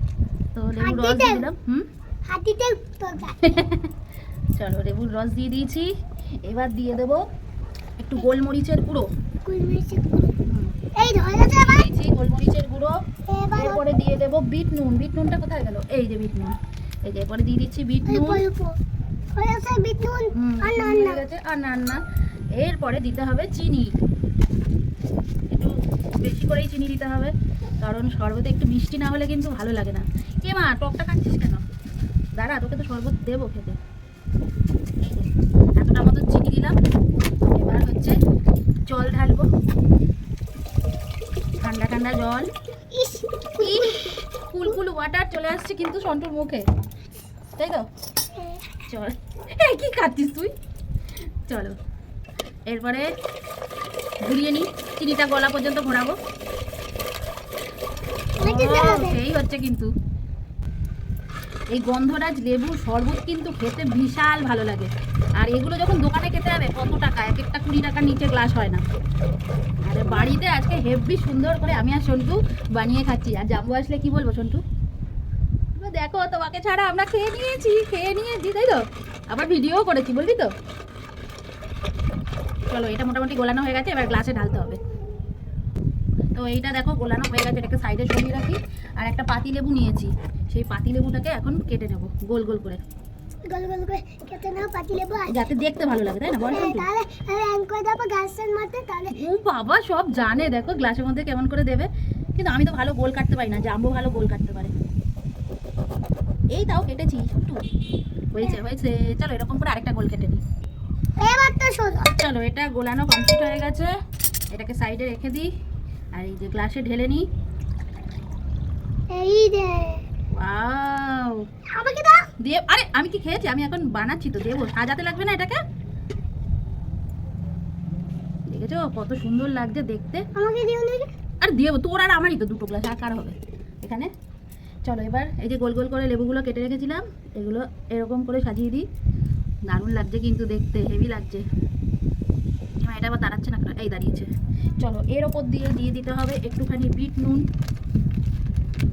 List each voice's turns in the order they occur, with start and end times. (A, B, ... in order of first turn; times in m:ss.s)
0:00.5-0:01.8 A
0:00.8-0:01.5 B
0:02.2-0:03.4 B
0:03.4-0:03.9 A
0:04.6-0:05.9 A
0:06.4-0:07.2 A
0:08.0-0:09.1 A
0:09.4-0:10.3 B
0:10.5-0:10.7 A
0:11.0-0:11.9 B
0:11.5-0:13.0 A
0:13.3-0:13.8 B
0:13.6-0:18.4 A
0:18.1-0:18.7 B
0:19.3-0:21.2 B
0:20.3-0:22.0 A
0:22.6-0:23.9 A
0:25.5-0:31.6 A
0:32.4-0:33.8 A
0:35.0-0:36.8 A
0:37.4-0:38.2 A
0:38.9-0:39.5 A
0:41.6-0:42.5 A
0:42.9-0:44.1 B
0:43.6-0:43.9 A
0:44.5-0:46.6 A
0:47.5-0:47.9 A
0:48.3-0:48.7 B
0:48.9-0:50.5 A
0:51.5-0:51.7 A
0:52.7-0:53.1 A
0:54.2-0:56.2 A
0:58.4-0:59.2 B
0:58.4-0:59.9 A
1:01.7-1:08.8 A
1:09.9-1:14.6 A
1:10.1-1:10.4 B
1:15.8-1:20.5 A
1:22.7-1:24.8 A
1:26.3-1:32.8 A
1:33.5-1:35.3 B
1:35.3-1:36.9 A
1:36.5-1:39.2 B
1:39.1-1:44.7 A
1:46.5-1:47.6 A
1:48.3-1:50.4 A
1:51.2-1:52.1 B
1:52.0-1:53.9 A
1:54.5-1:55.5 A
1:56.2-1:57.2 A
1:59.1-2:00.0 B
2:00.3-2:01.4 A
2:01.7-2:02.2 B
2:02.4-2:05.6 A
2:08.5-2:10.2 A
2:10.3-2:11.1 B
2:11.4-2:14.1 A
2:14.8-2:18.8 A
2:19.7-2:21.4 A
2:22.8-2:27.4 A